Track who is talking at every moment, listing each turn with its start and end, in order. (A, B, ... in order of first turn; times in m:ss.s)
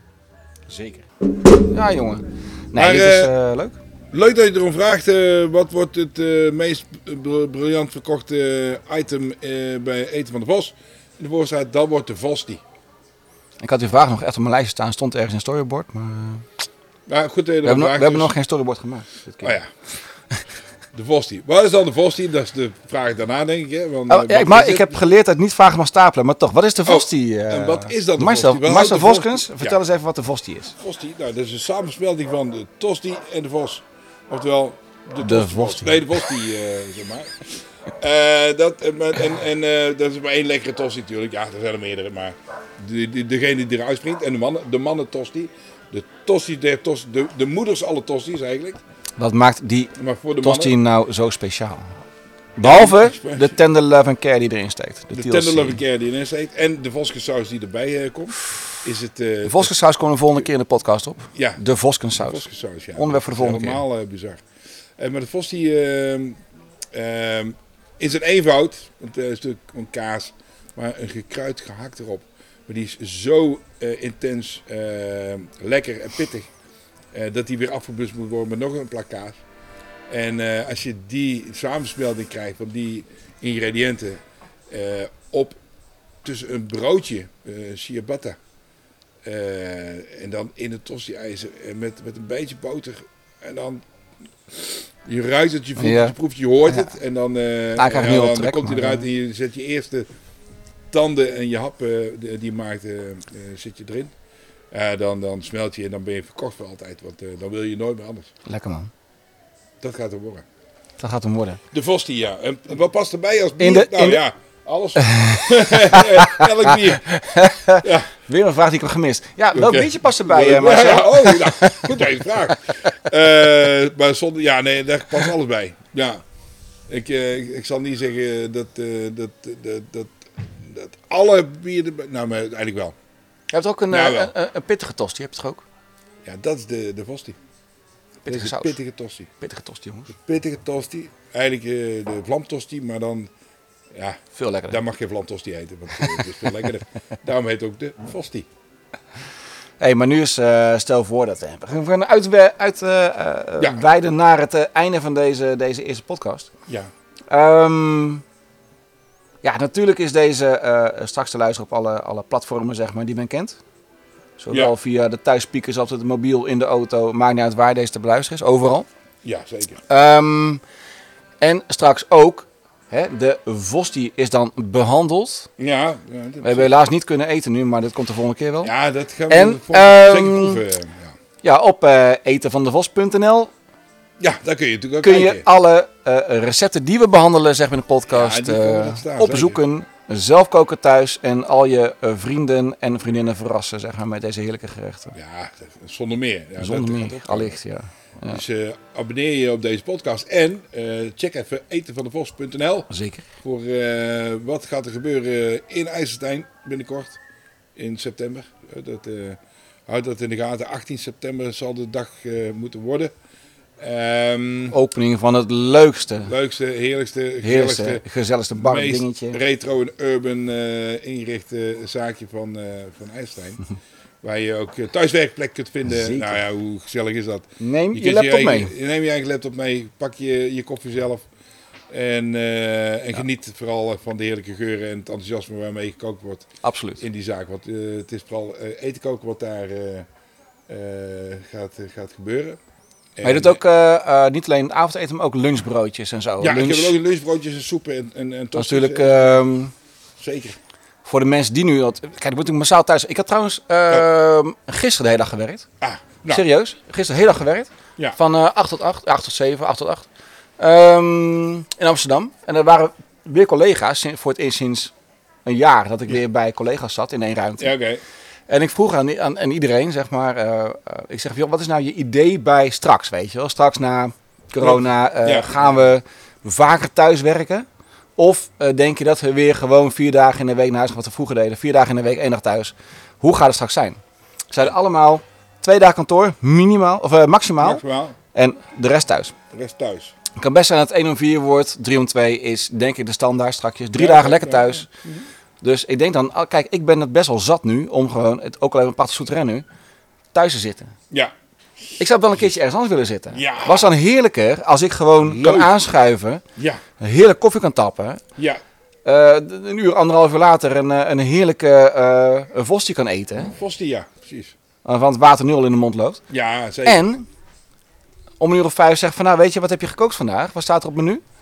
0:00.7-0:03.8 A
0:02.8-0:03.3 B
0:04.1-0:12.6 B
0:13.6-0:16.5 A
0:17.1-0:18.3 B
0:17.6-0:19.6 A
0:19.4-0:19.7 B
0:20.9-0:25.0 B
0:24.1-0:30.8 A
0:26.8-0:29.8 B
0:30.8-0:48.8 B
0:35.2-0:36.1 A
0:49.2-0:51.9 A
0:50.0-0:50.8 B
0:52.6-0:55.8 A
0:52.6-0:53.6 B
0:55.1-0:59.7 B
0:59.4-1:03.8 A
1:01.3-1:01.6 B
1:02.1-1:04.4 B
1:05.0-1:06.4 B
1:06.9-1:16.5 B
1:17.1-1:19.4 B
1:20.1-1:25.6 B
1:26.2-1:28.4 B
1:29.2-1:33.8 B
1:34.5-1:40.1 B
1:35.8-1:36.2 A
1:37.8-1:39.0 A
1:40.9-1:44.1 B
1:44.7-1:48.3 B
1:48.4-1:48.9 A
1:49.8-1:50.4 B
1:51.0-1:51.6 A
1:51.7-1:58.1 B
1:53.6-1:54.2 A
1:55.0-2:02.3 A
1:59.5-2:06.2 B
2:06.9-2:13.0 B
2:13.5-2:15.6 A
2:13.9-2:14.3 B
2:16.2-2:17.4 B
2:18.2-2:18.8 A
2:18.3-2:19.3 B
2:19.4-2:20.2 A
2:20.2-2:23.3 B
2:23.9-2:28.5 B
2:24.4-2:24.8 A
2:25.9-2:26.5 A
2:29.8-2:36.5 A
2:37.3-2:38.2 A
2:39.4-2:43.6 A
2:44.4-2:48.9 A
2:49.2-2:49.8 B
2:49.9-2:50.6 A
2:51.4-2:55.5 A
2:55.6-2:56.7 B
2:56.4-2:58.7 A
2:58.6-3:01.1 B
2:59.3-3:00.6 A
3:01.4-3:03.5 A
3:04.2-3:05.4 B
3:05.0-3:15.2 A
3:08.1-3:09.6 B
3:15.1-3:17.6 B
3:16.6-3:18.4 A
3:18.3-3:22.9 B
3:22.9-3:23.3 A
3:23.4-3:27.2 B
3:27.8-3:33.1 B
3:33.8-3:34.8 B
3:34.7-3:36.3 A
3:36.2-3:38.0 B
3:37.4-3:39.4 A
3:38.5-3:43.6 B
3:44.2-3:51.2 B
3:45.9-3:46.4 A
3:47.6-3:48.7 A
3:51.9-4:00.1 B
3:56.6-3:57.0 A
4:00.7-4:02.6 B
4:03.2-4:03.6 B
4:03.2-4:07.0 A
4:06.4-4:09.5 B
4:08.6-4:09.7 A
4:10.2-4:10.6 B
4:11.0-4:15.7 A
4:15.8-4:16.4 B
4:16.3-4:20.0 A
4:20.6-4:24.9 A
4:25.4-4:27.7 A
4:27.6-4:28.0 B
4:28.5-4:37.7 A
4:34.6-4:35.5 B
4:38.2-4:44.0 A
4:44.5-4:49.4 A
4:47.6-4:48.2 B
4:49.5-4:50.1 B
4:50.4-4:54.9 A
4:54.0-4:55.3 B
4:55.6-4:59.6 A
5:00.3-5:00.9 A
5:02.0-5:06.4 A
5:03.3-5:03.9 B
5:05.2-5:05.7 B
5:06.6-5:06.8 B
5:07.0-5:08.2 A
5:09.0-5:13.5 A
5:13.5-5:14.6 B
5:14.8-5:16.2 A
5:16.3-5:17.1 B
5:16.8-5:17.2 A
5:18.4-5:21.2 A